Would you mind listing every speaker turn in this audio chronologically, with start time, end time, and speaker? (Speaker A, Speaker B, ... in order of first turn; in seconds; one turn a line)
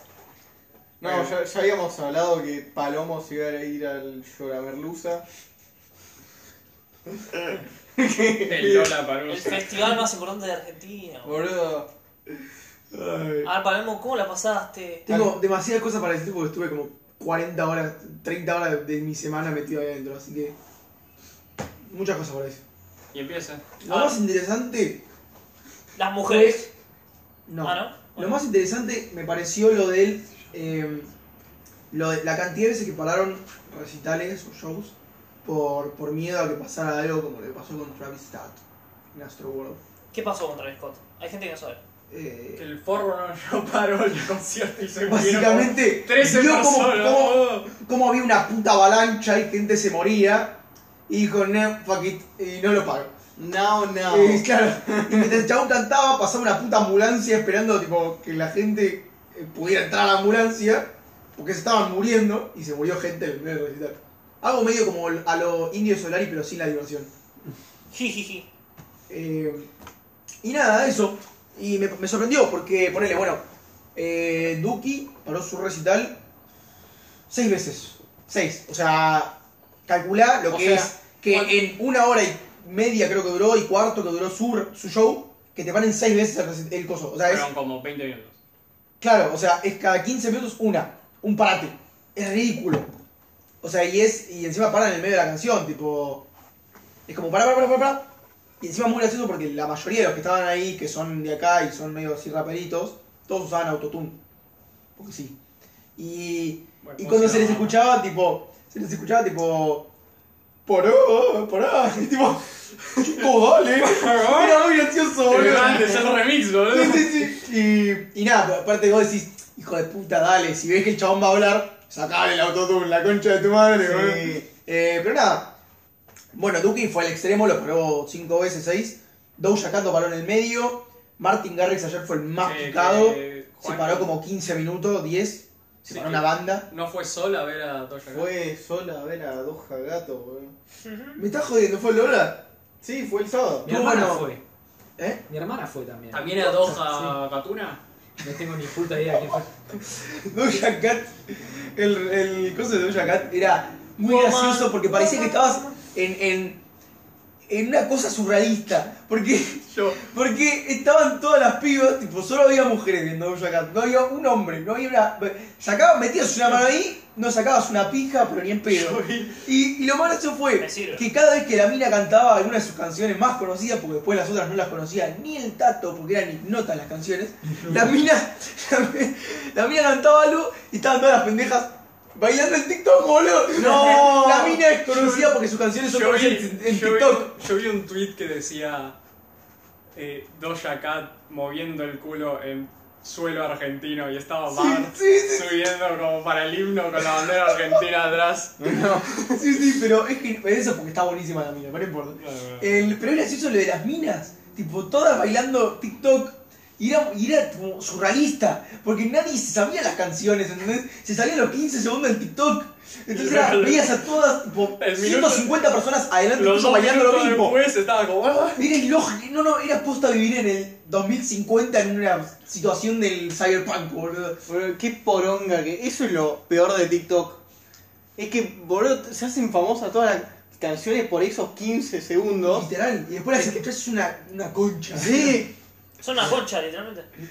Speaker A: 1.0-5.2
Speaker A: 7.2-9.0
Speaker B: 8.5-9.7
Speaker C: 9.3-11.5
Speaker A: 11.2-11.9
Speaker D: 12.9-13.5
Speaker C: 13.4-15.1
Speaker D: 15.1-20.6
Speaker A: 15.1-15.3
Speaker D: 21.9-22.6
Speaker B: 23.1-23.6
Speaker D: 23.8-25.0
Speaker C: 23.9-24.2
Speaker C: 26.0-26.7
Speaker D: 26.2-26.7
Speaker D: 27.5-31.1
Speaker C: 27.6-28.4
Speaker D: 31.9-38.6
Speaker D: 39.1-39.8
Speaker C: 40.1-41.8
Speaker D: 42.1-42.6
Speaker B: 42.6-47.7
Speaker D: 45.0-53.1
Speaker A: 53.4-55.4
Speaker D: 54.1-67.1
Speaker C: 67.9-68.5
Speaker D: 69.1-69.7
Speaker D: 70.4-73.4
Speaker D: 74.0-76.2
Speaker D: 77.3-87.5
Speaker A: 80.5-80.8
Speaker B: 81.3-81.5
Speaker B: 87.2-88.4
Speaker D: 89.0-92.9
Speaker D: 93.6-96.3
Speaker D: 97.1-98.1
Speaker D: 98.6-104.2
Speaker D: 105.0-105.4
Speaker D: 106.0-109.9
Speaker B: 106.8-107.8
Speaker D: 110.7-125.6
Speaker B: 113.7-117.3
Speaker A: 115.3-116.1
Speaker A: 123.8-124.4
Speaker D: 126.3-136.7
Speaker B: 132.4-134.1
Speaker B: 135.8-138.3
Speaker A: 138.1-140.5
Speaker C: 140.8-141.2
Speaker D: 141.2-142.5
Speaker A: 142.8-143.7
Speaker D: 143.7-144.3
Speaker E: 143.7-144.4
Speaker D: 145.0-145.2
Speaker E: 145.3-147.2
Speaker B: 146.1-147.8
Speaker D: 146.4-146.7
Speaker E: 148.2-149.5
Speaker D: 149.1-156.6
Speaker C: 154.0-155.8
Speaker D: 157.5-187.4
Speaker B: 159.7-160.0
Speaker B: 168.7-169.4
Speaker C: 170.6-171.1
Speaker A: 183.6-184.0
Speaker B: 183.6-189.0
Speaker B: 189.9-198.7
Speaker D: 194.5-195.6
Speaker D: 197.5-197.7
Speaker A: 198.6-199.4
Speaker D: 198.7-217.6
Speaker B: 202.2-202.9
Speaker B: 213.1-214.0
Speaker B: 214.8-215.6
Speaker B: 216.3-218.7
Speaker D: 218.6-224.4
Speaker A: 224.5-227.4
Speaker A: 228.2-232.7
Speaker D: 232.4-235.4
Speaker A: 234.9-235.5
Speaker C: 236.0-237.1